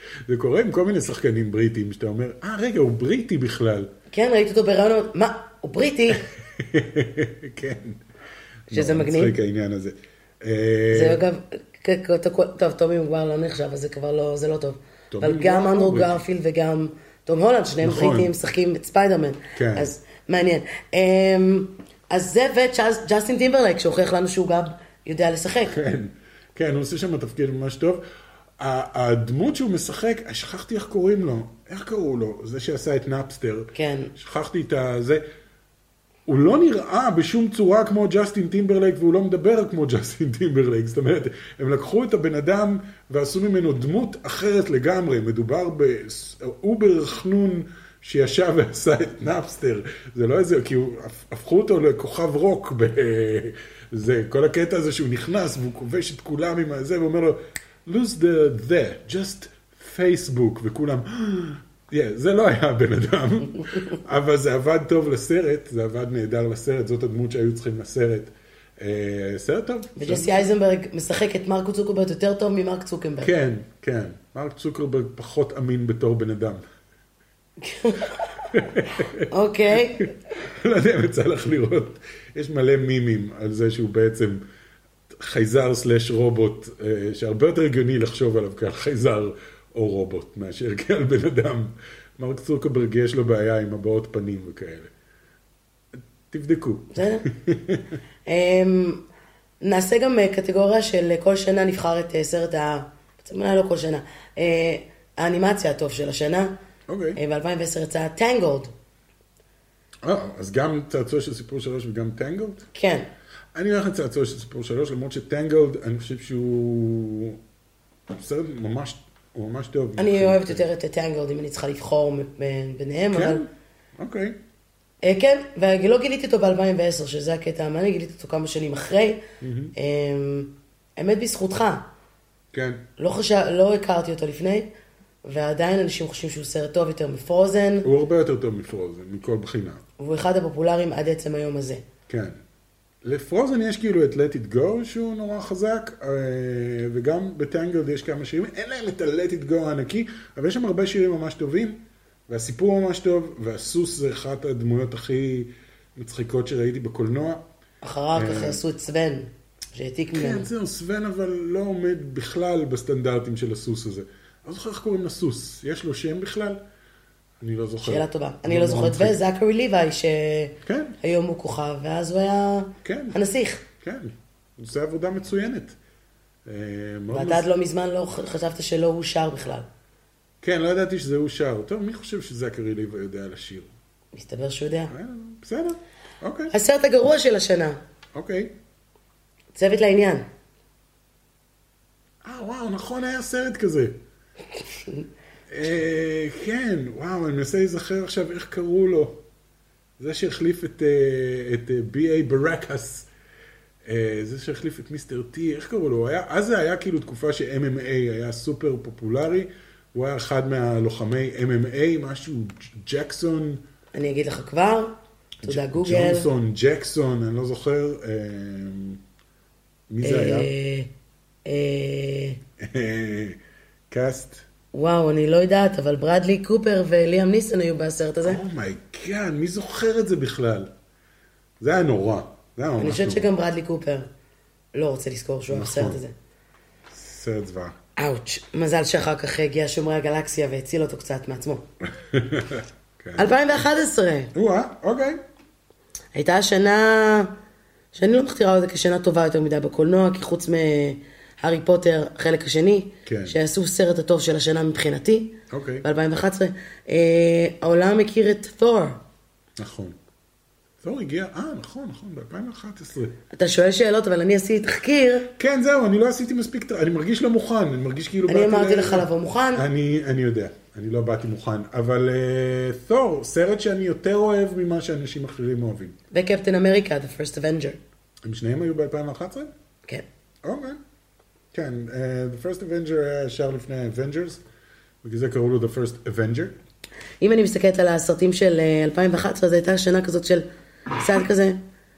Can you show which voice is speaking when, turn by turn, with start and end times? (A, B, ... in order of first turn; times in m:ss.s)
0:00.2-0:03.9 A
0:04.1-0:06.3 B
0:06.1-0:08.0 A
0:08.7-0:11.2 A
0:08.7-0:09.3 B
0:10.9-0:25.8 B
0:15.1-0:16.2 A
0:17.8-0:18.3 A
0:19.5-0:19.9 A
0:25.6-0:28.0 A
0:28.6-0:35.2 A
0:33.7-0:34.1 B
0:36.2-1:10.5 A
1:10.0-1:13.3 B
1:13.2-1:16.6 A
1:17.6-1:18.5 B
1:18.5-1:19.3 A
1:19.2-1:20.1 B
1:20.0-1:24.4 A
1:25.1-1:34.9 A
1:36.3-1:38.0 A
1:36.9-1:37.2 B
1:38.2-1:39.0 B
1:39.6-1:46.6 B
1:46.9-1:47.2 A
1:47.2-1:48.7 B
1:50.0-1:52.7 A
1:52.7-1:53.1 B
1:53.5-1:57.4 A
1:58.1-2:00.6 A
2:00.0-2:03.4 B
2:03.1-2:04.4 A
2:05.0-2:09.2 B
2:09.4-2:09.7 A
2:09.7-2:11.9 B
2:12.5-2:12.8 A
2:13.0-2:14.7 B
2:15.2-2:17.9 B
2:17.8-2:19.8 A
2:20.0-2:21.8 B
2:22.1-2:22.4 A
2:23.0-2:37.4 A
2:37.8-2:40.5 B
2:38.1-2:38.6 A
2:40.1-2:46.6 A
2:47.4-2:49.2 A
2:47.8-2:53.6 B
2:50.6-2:51.0 A
2:52.8-2:53.2 A
2:53.8-2:55.8 A
2:56.4-2:57.4 A
2:57.1-2:59.7 B
3:00.4-3:03.7 A
3:04.1-3:04.9 B
3:04.9-3:06.5 A
3:06.5-3:07.8 B
3:08.1-3:08.5 A
3:09.5-3:10.3 B
3:12.2-3:14.0 A
3:14.6-3:15.0 B
3:15.5-3:19.2 A
3:20.0-3:23.1 A
3:23.8-3:33.6 A
3:33.9-3:36.3 B
3:35.4-3:39.0 A
3:39.9-3:40.5 A
3:40.0-3:40.9 B
3:41.4-3:42.4 B
3:42.6-3:43.4 A
3:43.9-3:44.4 A
3:44.7-3:48.4 B
3:48.2-3:50.7 A
3:51.6-3:53.3 A
3:52.8-3:54.1 B
3:54.7-3:56.1 B
3:55.5-3:56.0 A
3:56.9-3:57.8 A
3:58.0-4:01.6 B
4:01.8-4:03.3 A
4:03.2-4:04.3 B
4:04.3-4:05.2 A
4:06.1-4:07.3 B
4:07.9-4:19.0 B
4:13.0-4:13.4 A
4:15.5-4:15.8 A
4:19.6-4:20.0 A
4:20.8-4:23.2 A
4:23.3-4:25.3 B
4:25.4-4:35.9 A
4:28.3-4:29.7 B
4:36.1-4:37.8 B
4:38.2-4:39.5 A
4:40.4-4:40.8 A
4:41.5-4:44.4 A
4:45.0-4:46.6 A
4:47.2-4:51.6 B